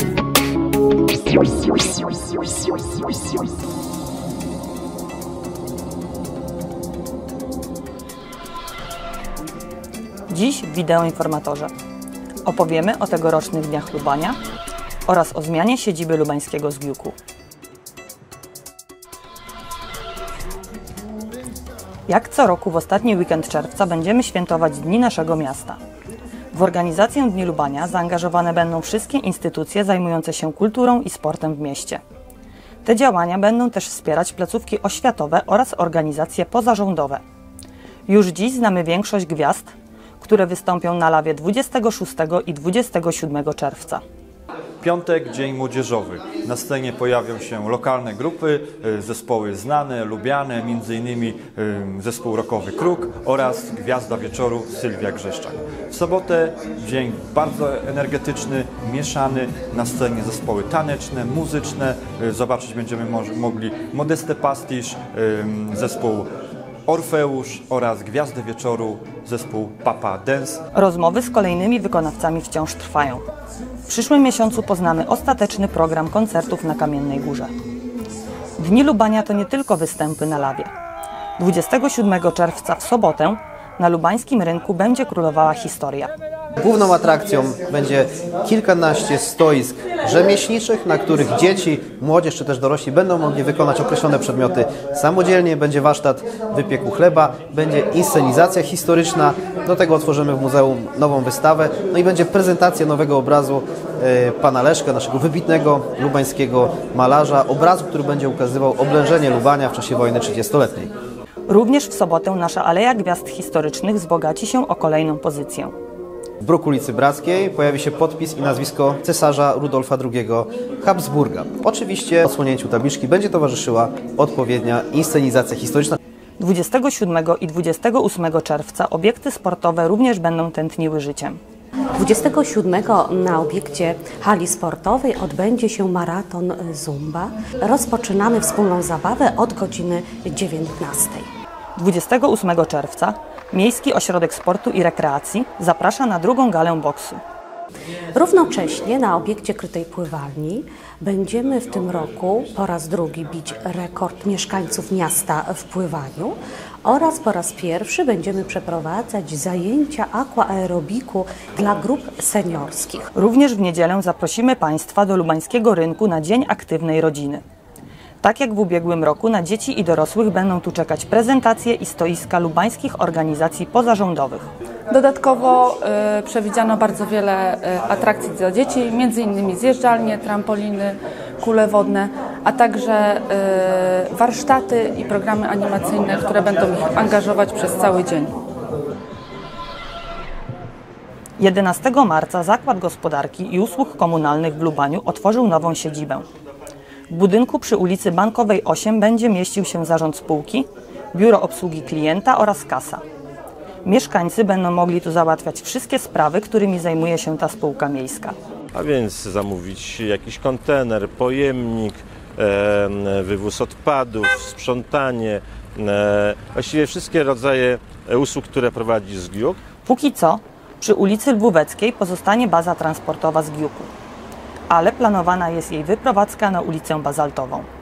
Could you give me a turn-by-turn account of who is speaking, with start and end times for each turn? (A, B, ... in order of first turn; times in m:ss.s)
0:10.3-0:11.7 A
0:12.4-0:14.4 A
0:15.0-0:17.2 A
0:22.1-0:25.8 A
0:26.5-0:32.0 A
0:32.8-0:37.2 A
0:38.1-0:44.0 A
0:44.8-1:06.3 B
1:06.8-1:10.6 B
1:10.7-1:13.2 A
1:13.9-1:17.5 A
1:18.6-1:20.7 A
1:21.4-1:26.1 A
1:26.6-1:50.9 C
1:51.5-1:55.7 A
1:56.4-2:06.0 C
2:06.4-2:11.4 A
2:12.0-2:21.3 D
2:21.8-2:27.2 A
2:28.1-2:43.1 D
2:43.1-2:47.4 A
2:48.2-2:54.5 A
2:54.9-3:08.4 E
3:11.4-3:16.3 A
3:17.1-3:23.0 A
3:23.8-3:28.4 A
3:28.7-3:39.6 F
3:39.8-3:43.9 A
3:44.7-3:47.7 A